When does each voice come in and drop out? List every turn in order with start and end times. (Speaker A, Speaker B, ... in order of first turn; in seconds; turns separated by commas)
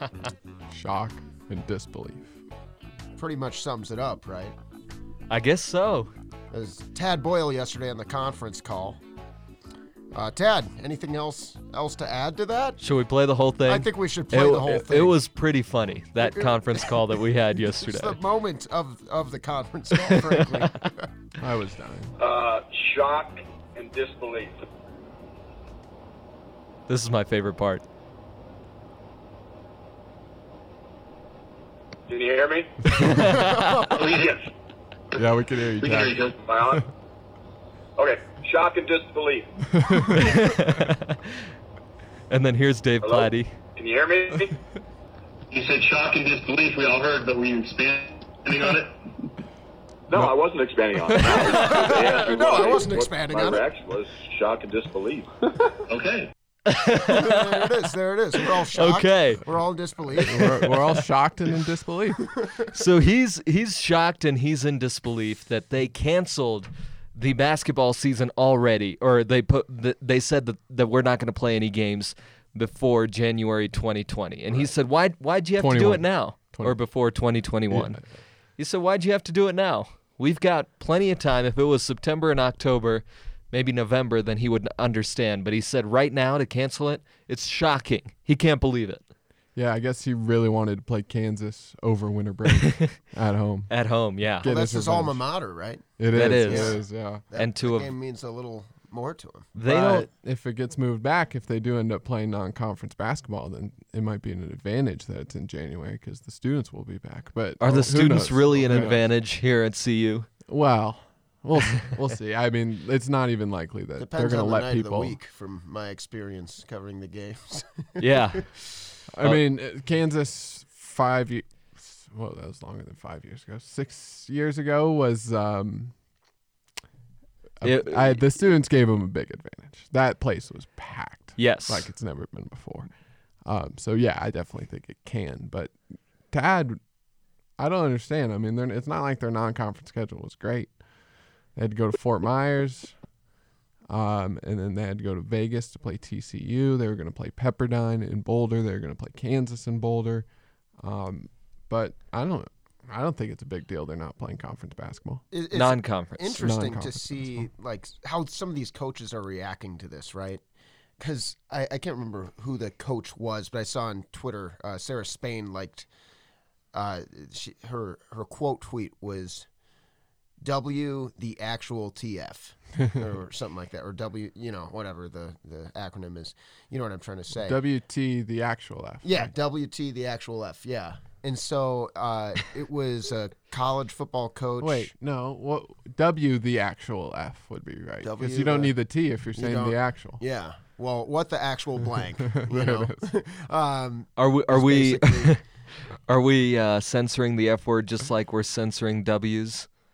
Speaker A: 0.7-2.4, Speaker B: 3.2-4.5, Speaker C: 5.3-6.1, Speaker B: 6.5-9.0, Speaker B: 10.1-12.8, Speaker C: 12.8-18.2, Speaker B: 13.7-15.2, Speaker B: 16.2-16.9, Speaker B: 17.8-21.1, Speaker C: 20.1-20.4, Speaker A: 21.4-22.1, Speaker D: 22.2-24.6, Speaker C: 26.9-27.8, Speaker D: 32.1-33.0, Speaker C: 33.1-33.9, Speaker B: 33.4-33.8, Speaker E: 33.9-34.4, Speaker A: 35.1-36.2, Speaker E: 35.8-36.8, Speaker D: 36.4-36.8, Speaker D: 38.0-39.5, Speaker A: 39.7-40.3, Speaker C: 40.2-41.3, Speaker C: 42.3-43.5, Speaker D: 43.0-44.6, Speaker E: 45.5-49.0, Speaker D: 50.1-55.3, Speaker A: 51.1-51.5, Speaker B: 51.5-53.6, Speaker E: 55.9-56.3, Speaker C: 56.6-57.9, Speaker B: 57.0-60.5, Speaker C: 58.4-59.4, Speaker C: 60.2-61.0, Speaker A: 60.2-62.3, Speaker C: 62.7-78.0, Speaker A: 75.6-76.8, Speaker A: 77.7-78.0, Speaker C: 78.6-89.0, Speaker A: 89.5-93.7, Speaker C: 92.5-92.9, Speaker C: 93.7-94.5, Speaker A: 94.4-95.2, Speaker B: 94.4-95.9, Speaker A: 96.0-97.2, Speaker C: 96.1-96.7, Speaker B: 96.4-96.8, Speaker B: 97.3-99.5, Speaker C: 97.3-97.9, Speaker C: 99.5-100.1, Speaker A: 99.6-109.0, Speaker C: 107.6-110.3, Speaker A: 110.5-115.2, Speaker B: 114.0-118.4, Speaker C: 118.0-118.5, Speaker A: 119.1-125.9, Speaker A: 127.6-132.9, Speaker C: 127.6-128.2, Speaker C: 131.4-131.9, Speaker A: 133.4-135.8, Speaker A: 136.3-136.8, Speaker A: 137.6-140.7, Speaker A: 141.5-142.9, Speaker A: 143.9-150.2, Speaker A: 150.8-155.2, Speaker B: 155.3-160.4, Speaker C: 155.5-156.4, Speaker A: 156.4-157.5, Speaker B: 161.0-165.9, Speaker B: 166.7-169.5, Speaker B: 170.4-177.6, Speaker A: 177.3-179.3, Speaker B: 179.0-184.9, Speaker A: 184.6-190.2, Speaker B: 188.0-188.7, Speaker B: 189.3-195.4, Speaker A: 192.3-193.1, Speaker C: 194.2-195.4, Speaker C: 196.1-199.7